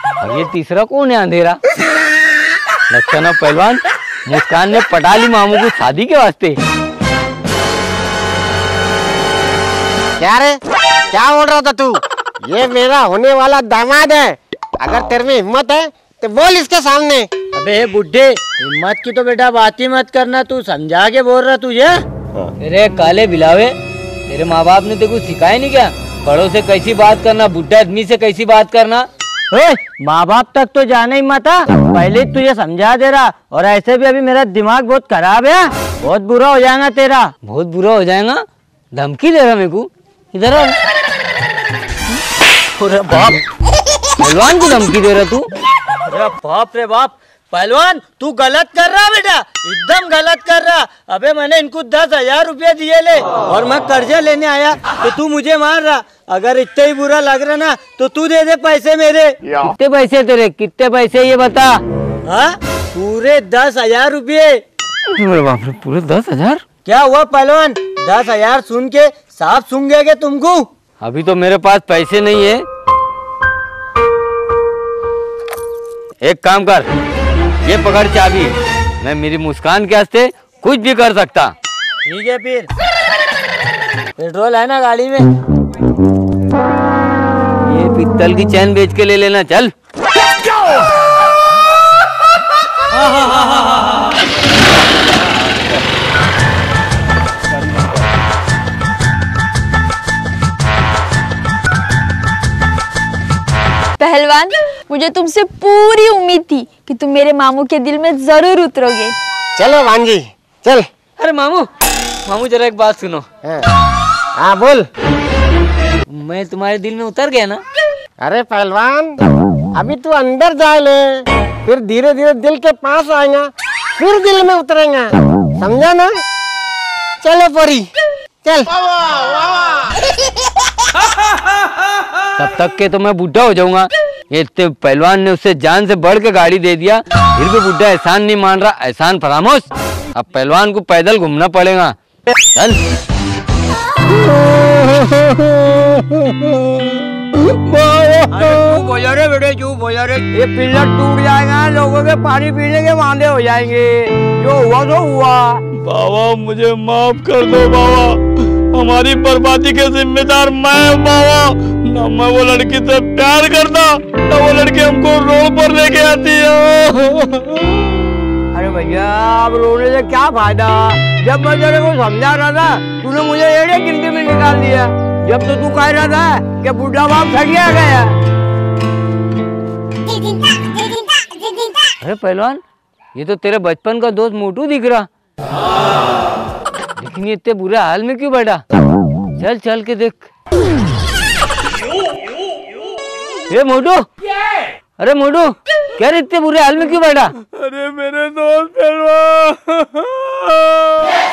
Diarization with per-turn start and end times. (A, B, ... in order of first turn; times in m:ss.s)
0:00.2-0:01.6 A
0:02.9-0:06.6 A
0:10.2-0:10.6 B
0:11.1-0:11.9 B
0:12.5-0:17.3 B
0:17.5-0:22.0 C
0:22.6-0:23.7 A
0:24.3-0:29.0 A
0:29.5-0:37.3 C
0:37.4-0:38.4 A
0:38.9-0:40.7 A
0:42.8-0:43.4 C
0:44.2-0:45.5 A
0:46.1-0:59.3 C
0:59.6-1:01.8 A
1:02.2-1:04.6 C
1:05.1-1:06.6 A
1:06.8-1:10.7 C
1:11.0-1:12.6 A
1:16.2-1:16.9 A
1:17.6-1:21.5 A
1:22.0-1:22.7 C
1:24.2-1:25.3 C
1:27.6-1:29.7 A
1:44.0-1:49.2 D
1:49.6-1:50.8 B
1:51.2-1:51.7 A
1:52.2-1:53.2 A
1:54.4-1:54.8 B
1:56.1-1:57.6 A
1:58.2-1:59.2 B
1:59.7-2:01.0 B
2:01.6-2:03.4 B
2:04.0-2:06.1 B
2:07.2-2:07.8 B
2:12.4-2:21.9 A
2:22.5-2:22.8 A
2:27.5-2:28.7 E
2:28.4-2:35.6 C
2:35.8-2:38.2 E
2:38.7-2:47.8 E
2:48.6-2:58.1 C
3:02.0-3:02.6 A
3:03.1-3:05.1 A
3:07.0-3:08.6 A
3:09.4-3:10.3 A
3:13.5-3:14.0 A
3:15.0-3:17.3 A
3:17.4-3:21.1 E